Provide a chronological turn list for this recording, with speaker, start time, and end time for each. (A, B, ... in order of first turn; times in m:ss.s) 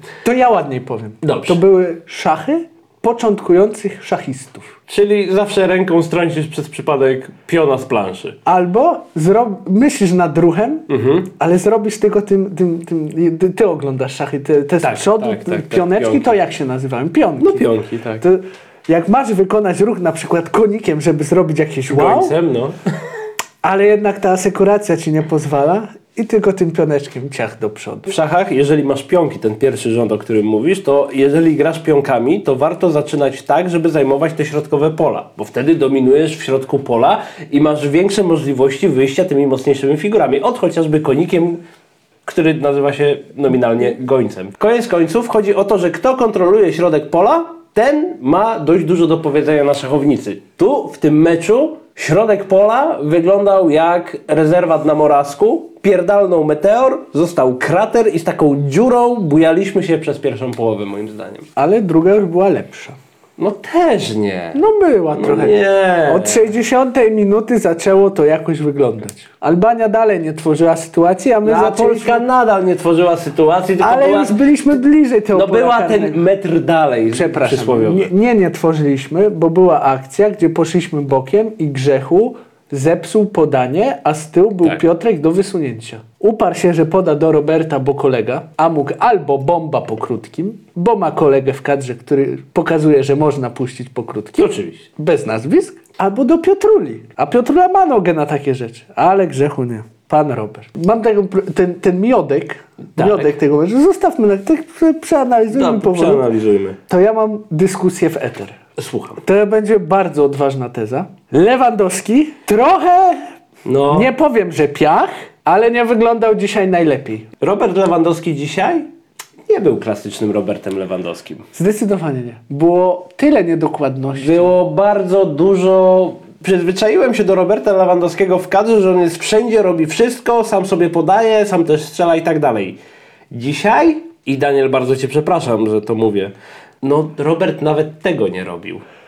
0:00.2-0:04.7 A
0:01.2-0:01.6 B
0:04.9-0:08.4 B
0:08.4-0:22.3 A
0:10.9-0:11.3 B
0:14.8-0:16.4 B
0:17.4-0:18.2 B
0:21.9-0:22.8 B
0:23.6-0:28.1 A
0:28.1-0:41.6 B
0:42.2-1:01.4 B
1:01.6-1:03.0 A
1:03.4-1:04.6 B
1:04.5-1:12.2 A
1:05.1-1:06.5 B
1:11.4-1:14.4 B
1:13.8-1:16.2 A
1:15.3-1:18.1 B
1:17.1-1:46.2 A
1:34.4-1:34.9 B
1:43.0-1:43.3 B
1:45.5-1:46.8 B
1:46.9-1:48.6 A
1:48.8-1:49.2 B
1:49.2-1:53.3 A
1:53.6-1:54.1 B
1:53.9-1:57.3 A
1:57.4-1:58.9 B
1:59.5-2:01.4 B
2:01.5-2:04.5 A
2:04.2-2:12.8 B
2:13.3-2:18.8 B